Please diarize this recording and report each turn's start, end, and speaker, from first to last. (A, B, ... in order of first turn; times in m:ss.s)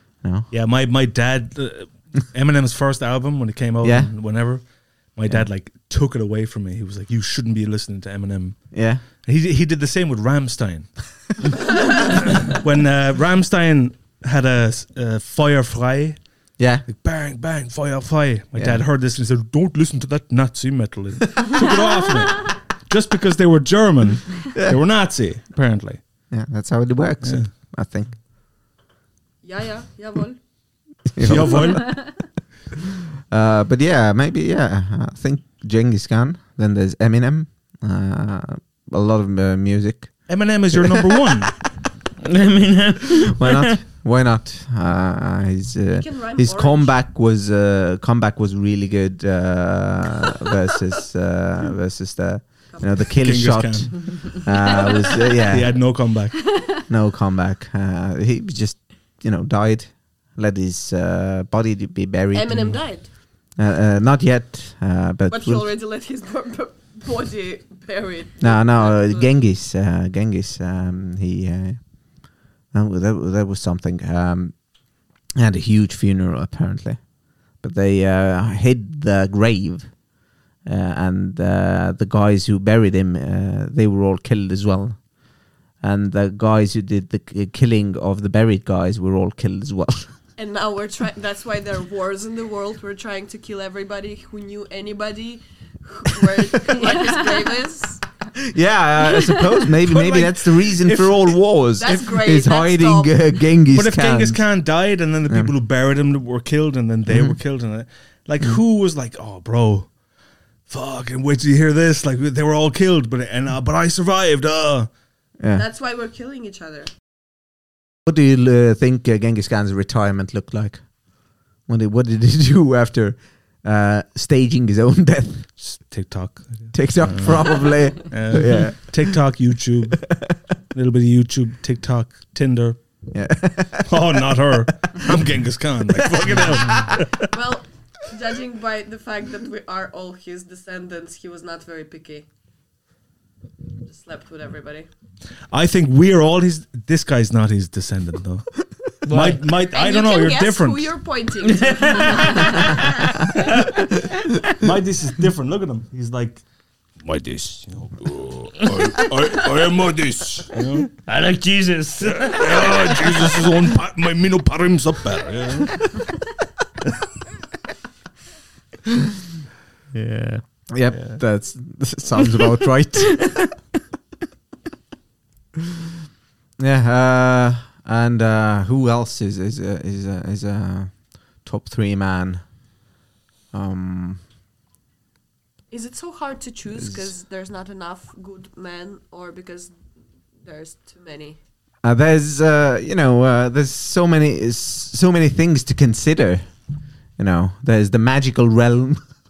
0:00.2-0:00.5 A
0:00.5-0:11.0 B
0:03.8-0:04.1 A
0:08.7-0:09.0 A
0:11.5-0:16.2 B
0:16.6-0:16.8 A
0:16.8-0:26.0 B
0:18.6-0:18.8 A
0:24.5-0:24.8 A
0:26.3-0:28.2 A
0:27.2-0:27.5 B
0:29.4-0:30.4 C
0:31.1-0:32.1 A
0:31.2-0:32.0 B
0:33.3-0:40.2 A
0:40.3-0:41.6 B
0:40.7-0:41.4 A
0:42.2-0:43.7 D
0:43.3-0:55.9 A
0:46.0-0:47.0 C
0:52.7-0:53.0 C
0:53.2-0:54.1 B
0:55.4-0:56.5 B
0:56.9-1:05.7 A
1:02.3-1:03.1 C
1:05.3-1:09.3 C
1:08.4-1:14.6 A
1:15.4-1:20.0 A
1:20.6-1:25.0 A
1:25.8-1:30.1 A
1:30.4-1:38.0 C
1:38.4-1:44.4 A
1:39.8-1:41.4 B
1:41.8-1:43.3 C
1:43.7-1:49.9 B
1:47.1-1:47.4 A
1:50.7-1:54.9 B
1:55.5-1:56.9 C
1:58.0-2:00.8 A
2:01.6-2:05.5 A
2:05.6-2:10.1 B
2:06.7-2:09.1 A
2:10.7-2:12.8 B
2:13.1-2:14.1 A
2:13.8-2:17.2 B
2:15.9-2:16.9 A
2:17.3-2:22.2 C
2:23.8-2:24.9 C
2:25.5-2:28.5 B
2:29.0-2:29.4 D
2:29.1-2:30.9 B
2:29.7-2:33.2 C
2:31.6-2:33.6 D
2:34.5-2:36.4 B
2:37.0-2:40.9 B
2:41.0-2:43.3 D
2:42.2-2:46.0 B
2:49.9-2:50.4 D
2:50.7-2:53.4 A
2:56.6-3:02.4 A
3:03.5-3:04.2 A
3:05.7-3:09.7 C
3:10.4-3:11.4 C
3:11.8-3:16.4 A
3:17.2-3:19.0 A